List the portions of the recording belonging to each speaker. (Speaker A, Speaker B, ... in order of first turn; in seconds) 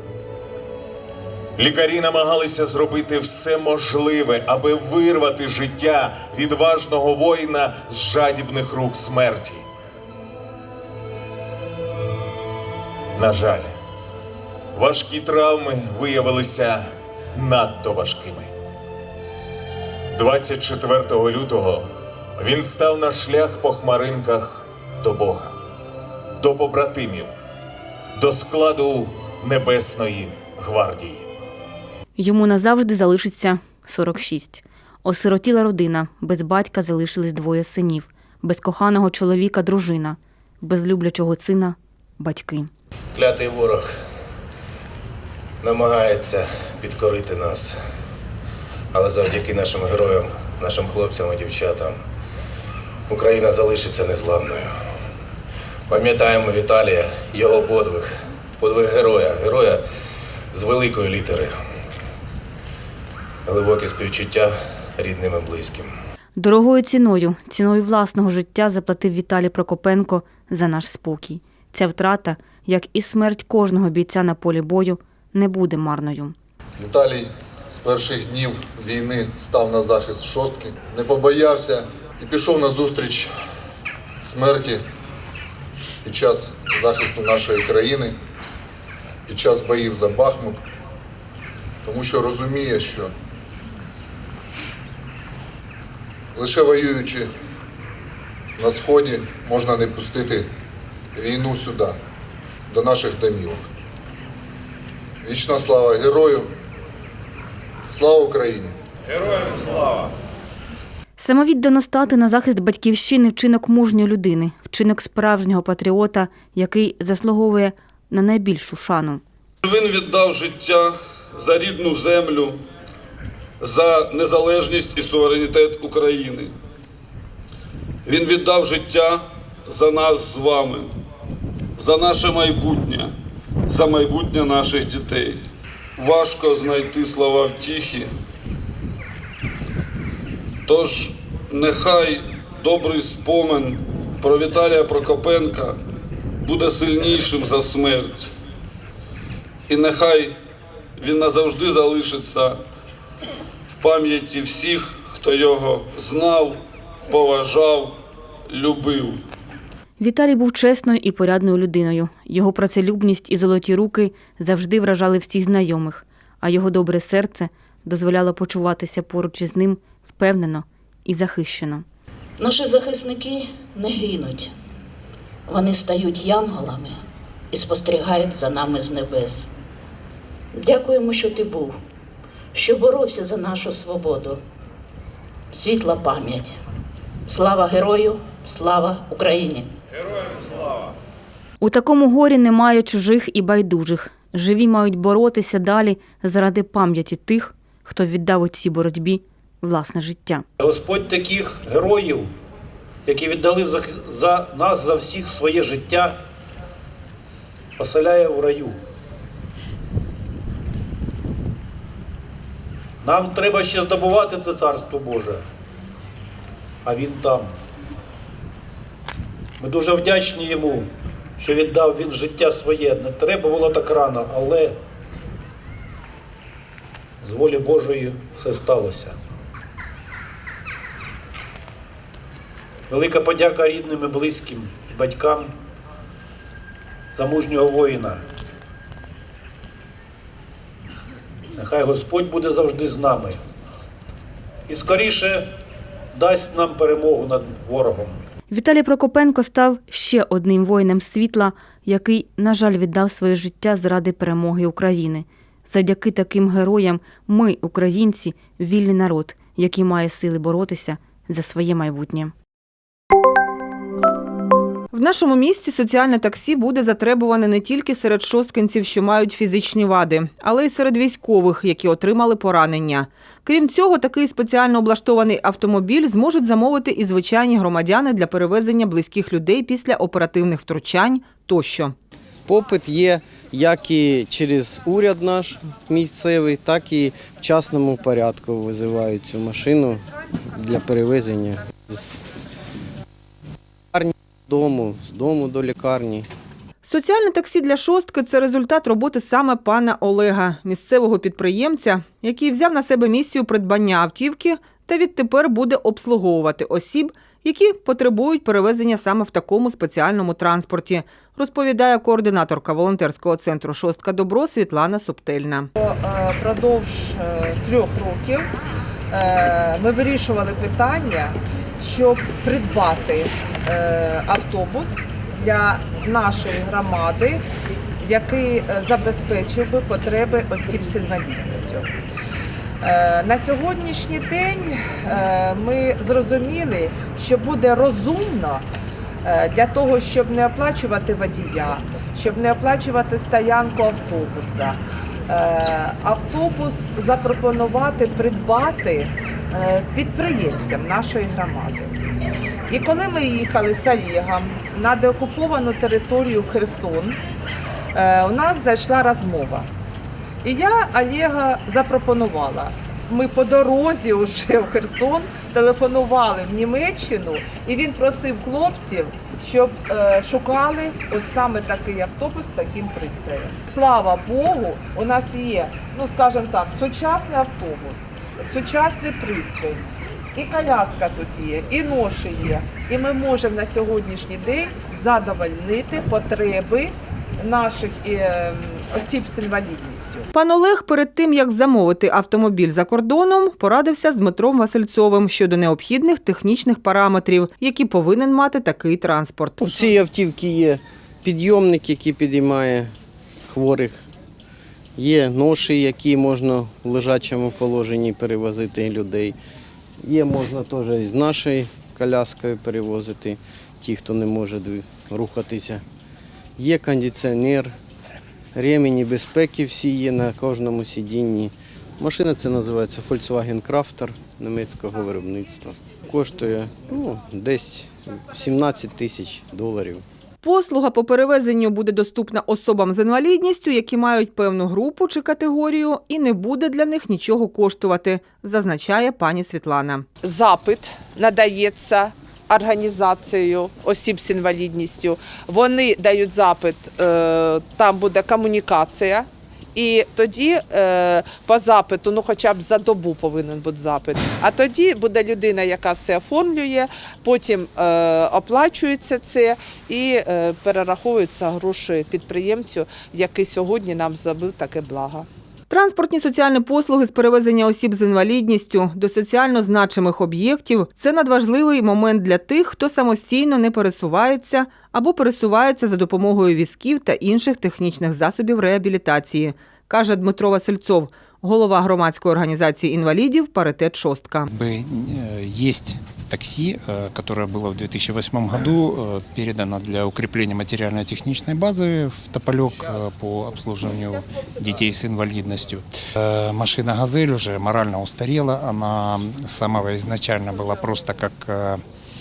Speaker A: 1.6-9.6, 13.2-13.7, 14.8-18.5, 20.1-25.6, 26.4-27.3, 28.2-31.3
Speaker B: 32.2-42.7, 66.4-76.3, 111.2-119.2, 160.0-171.8, 191.6-200.4, 248.5-262.3
Speaker C: 43.1-44.0, 45.6-47.8, 48.9-52.0, 53.1-54.8, 55.9-59.9, 60.5-61.6, 63.5-65.9
Speaker D: 76.8-83.3, 84.2-84.8, 86.0-88.2, 89.3-90.6, 91.8-93.1, 96.3-97.3, 98.6-100.5, 101.2-102.0, 102.7-103.7, 105.2-106.5, 107.9-108.7
Speaker E: 119.6-122.6, 123.6-126.5, 128.1-130.9, 131.8-133.1, 133.7-135.4, 136.0-138.1, 140.7-145.8, 146.4-148.3, 149.7-150.4, 151.0-152.6, 153.7-158.0, 158.5-159.2
Speaker F: 172.4-174.5, 175.5-177.0, 177.5-179.5, 180.5-181.8, 182.5-184.4, 185.5-186.6, 187.3-189.7
Speaker G: 200.6-202.3, 203.1-206.2, 207.8-208.8, 213.0-215.4, 216.8-217.6, 219.6-224.8, 227.2-229.2, 232.9-235.5, 237.1-238.2, 241.5-243.4, 244.7-245.5, 246.1-248.2
Speaker H: 264.9-281.9, 296.8-315.7, 390.3-399.9, 430.4-440.1, 465.7-484.5
Speaker I: 282.5-290.0, 290.6-292.2, 293.9-296.3, 399.6-402.9, 403.5-404.0, 405.0-409.4, 410.0-415.8, 416.6-417.7, 418.6-430.0
Speaker J: 315.8-318.5, 319.1-327.4, 328.0-331.9, 332.8-338.7, 339.2-352.0, 352.7-357.2, 357.9-359.7, 360.4-390.3, 440.2-465.3
Speaker K: 484.5-501.8